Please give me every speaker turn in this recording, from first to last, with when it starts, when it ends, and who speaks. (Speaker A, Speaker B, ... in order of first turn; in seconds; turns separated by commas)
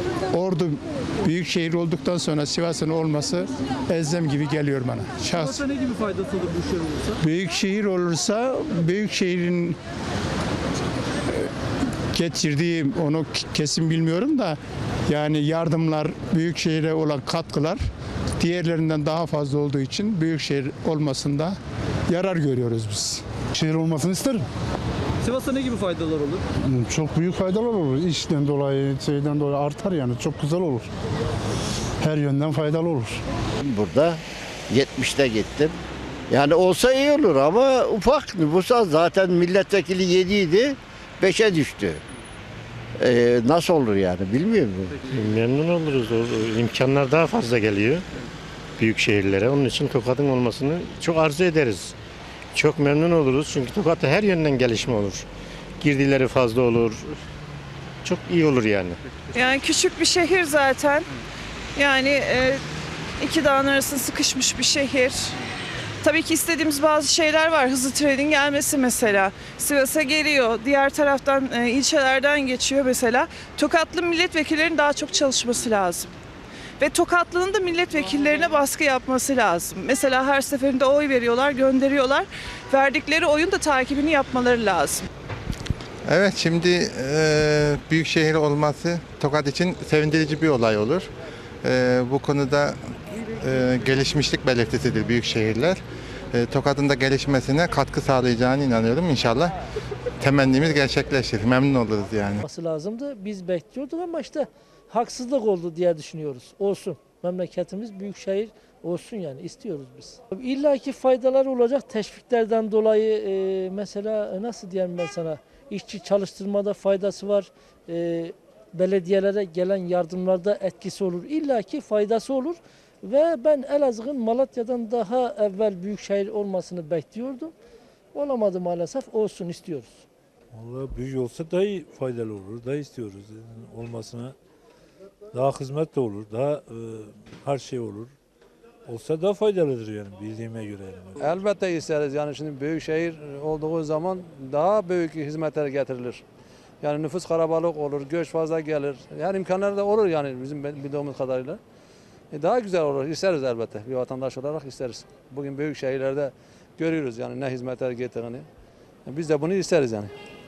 Speaker A: 0.3-5.6, Speaker B: 6.1-6.9, Speaker A: 7.2-9.8, Speaker A: 12.1-17.8, Speaker A: 18.4-21.6, Speaker A: 22.1-23.2, Speaker C: 23.6-24.4, Speaker B: 25.3-26.4, Speaker C: 26.6-30.9, Speaker C: 32.0-33.2, Speaker D: 33.6-35.8, Speaker D: 36.3-42.0, Speaker D: 43.0-45.0, Speaker E: 45.0-48.0, Speaker E: 48.8-52.0, Speaker E: 52.5-55.3, Speaker E: 55.8-57.1, Speaker E: 58.0-59.0, Speaker F: 59.4-61.1, Speaker F: 61.8-62.6, Speaker F: 63.2-65.3, Speaker F: 66.0-76.1, Speaker F: 76.8-85.0, Speaker G: 86.0-91.1, Speaker G: 91.6-95.8, Speaker G: 96.3-99.6, Speaker G: 100.2-102.5, Speaker H: 102.5-127.5, Speaker H: 128.1-130.0, Speaker I: 130.5-134.3, Speaker I: 135.3-138.1, Speaker I: 138.9-141.4, Speaker J: 141.2-146.2, Speaker J: 146.8-151.6, Speaker J: 152.3-158.5, Speaker J: 159.1-160.1